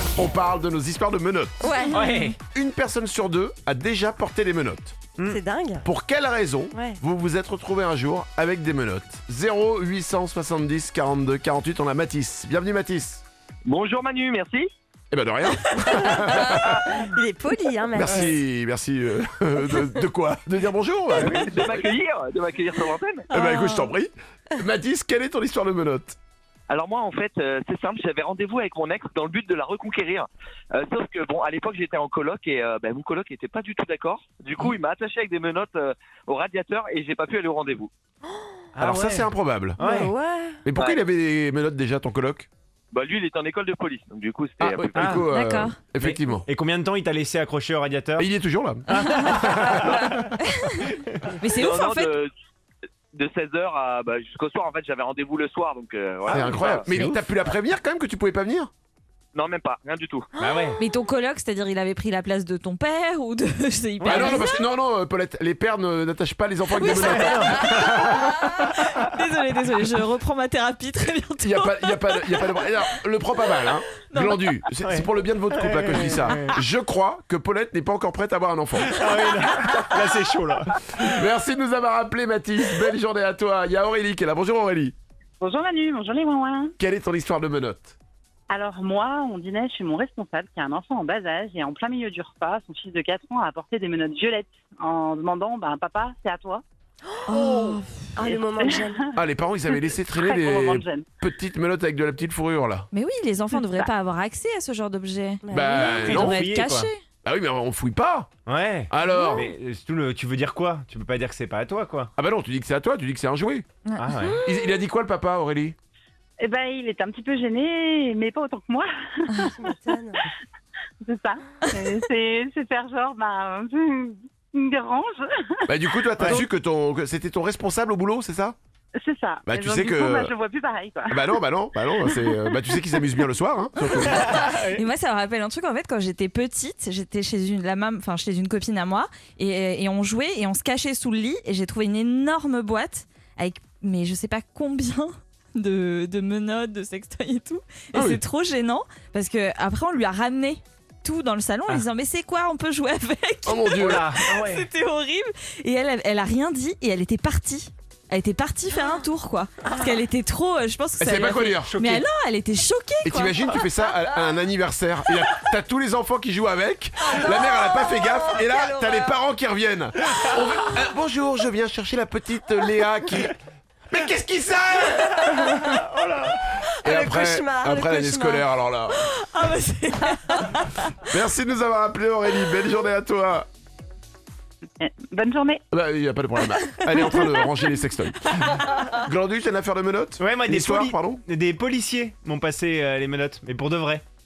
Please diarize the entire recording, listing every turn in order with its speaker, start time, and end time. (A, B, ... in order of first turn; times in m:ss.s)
0:00.2-0:01.6 A
0:01.6-0:02.3 B
0:01.9-0:02.4 C
0:02.5-0:05.0 A
0:05.2-0:05.4 C
0:05.2-0:05.8 D
0:05.8-0:13.2 A
0:06.7-0:07.0 D
0:13.7-0:14.6 E
0:15.1-0:17.0 A
0:15.9-0:18.3 D
0:17.9-0:21.9 A
0:21.2-0:23.2 E
0:23.3-0:23.9 B
0:23.3-0:26.2 A
0:26.7-0:37.9 E
0:38.7-0:40.1 C
0:38.8-0:40.1 A
0:39.8-0:40.6 D
0:40.6-0:42.5 A
0:42.9-0:45.2 E
0:44.6-0:46.4 A
0:45.0-0:45.2 C
0:45.3-0:45.7 B
0:46.0-0:48.3 C
0:48.2-0:50.0 A
0:48.9-0:50.3 C
0:48.9-0:50.9 B
0:51.4-0:52.1 B
0:51.6-0:52.3 E
0:53.1-0:56.8 E
0:56.3-0:57.3 C
0:56.3-0:58.7 A
0:59.3-1:00.3 E
1:00.4-1:00.8 C
1:00.8-1:04.6 B
1:04.0-1:04.4 C
1:04.0-1:08.4 A
1:06.7-1:12.7 B
1:07.2-1:08.1 C
1:11.4-1:19.0 A
1:14.0-1:14.6 B
1:14.8-1:16.5 C
1:18.8-1:21.2 C
1:21.2-1:24.9 A
1:25.4-1:26.7 F
1:26.8-1:27.9 A
1:28.5-1:36.6 F
1:37.2-1:39.1 D
1:37.3-1:38.1 B
1:38.2-1:39.0 F
1:39.1-1:42.9 A
1:39.7-1:41.0 F
1:42.9-1:47.0 B
1:43.5-1:43.9 F
1:45.4-1:45.8 D
1:45.5-1:46.4 A
1:45.8-1:46.9 C
1:47.2-1:48.3 A
1:48.5-1:52.1 C
1:48.9-1:49.5 A
1:52.2-1:53.6 A
1:53.8-1:54.2 B
1:54.0-1:54.4 C
1:54.4-1:55.7 A
1:56.4-2:00.0 F
1:59.5-2:00.2 D
2:01.0-2:05.2 F
2:05.7-2:08.6 A
2:06.2-2:06.4 C
2:09.0-2:11.2 F
2:09.4-2:10.3 A
2:11.1-2:14.4 A
2:11.9-2:12.3 F
2:14.2-2:43.6 B
2:14.2-2:14.8 C
2:27.9-2:28.2 A
2:33.4-2:34.1 A
2:33.8-2:34.6 C
2:41.0-2:41.7 A
2:41.6-2:42.0 C
2:43.0-2:53.3 A
2:47.2-2:49.2 D
2:53.9-2:55.8 A
2:55.2-2:58.4 D
2:56.8-2:59.0 A
2:59.0-3:01.0 B
3:01.0-3:03.5 A
3:04.8-3:05.6 F
3:05.7-3:11.2 A
3:10.2-3:14.0 C